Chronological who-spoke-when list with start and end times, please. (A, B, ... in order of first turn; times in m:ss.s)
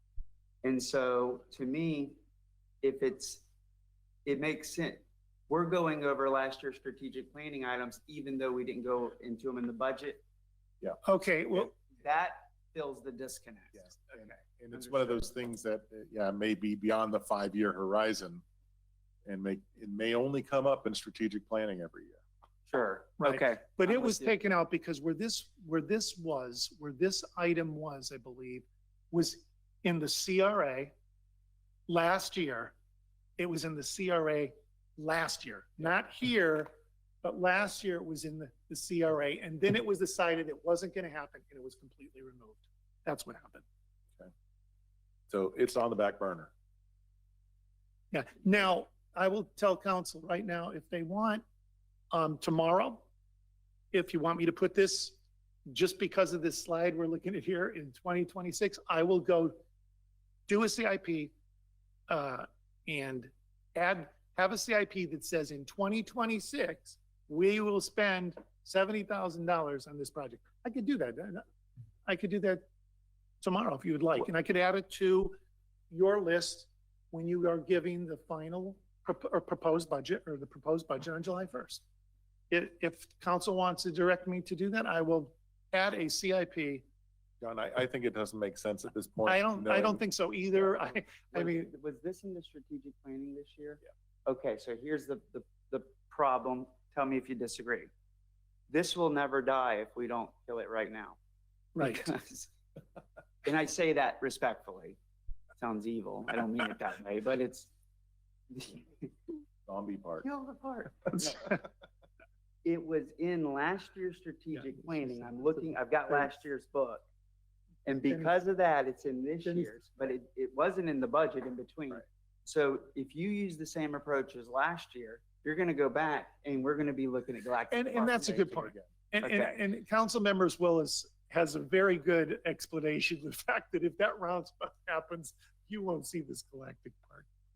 0:00.6-0:02.2 A
0:02.8-0:03.4 A
0:04.2-0:10.2 A
0:11.0-0:11.7 B
0:11.7-0:15.3 A
0:13.7-0:18.4 C
0:19.2-0:22.2 C
0:22.7-0:24.3 A
0:23.2-0:30.9 B
0:31.9-0:32.7 B
0:33.4-0:36.7 B
0:37.2-0:43.6 B
0:45.3-0:46.5 C
0:48.1-0:51.4 B
0:52.1-0:53.0 B
0:53.9-0:59.6 B
1:00.5-1:01.3 B
1:02.1-1:11.4 B
1:12.0-1:12.6 B
1:13.4-1:15.4 B
1:15.9-1:21.8 B
1:22.5-1:26.8 B
1:27.4-1:30.0 C
1:29.2-1:31.7 B
1:30.5-1:37.9 A
1:38.7-1:41.2 A
1:41.8-1:42.1 B
1:41.8-1:42.5 A
1:43.4-1:45.0 A
1:45.6-1:47.7 A
1:48.5-1:49.4 A
1:49.7-1:50.3 C
1:50.2-1:51.6 A
1:52.6-1:57.0 A
1:54.8-1:55.4 B
1:57.8-2:09.6 A
1:59.4-1:59.7 B
2:07.7-2:17.2 B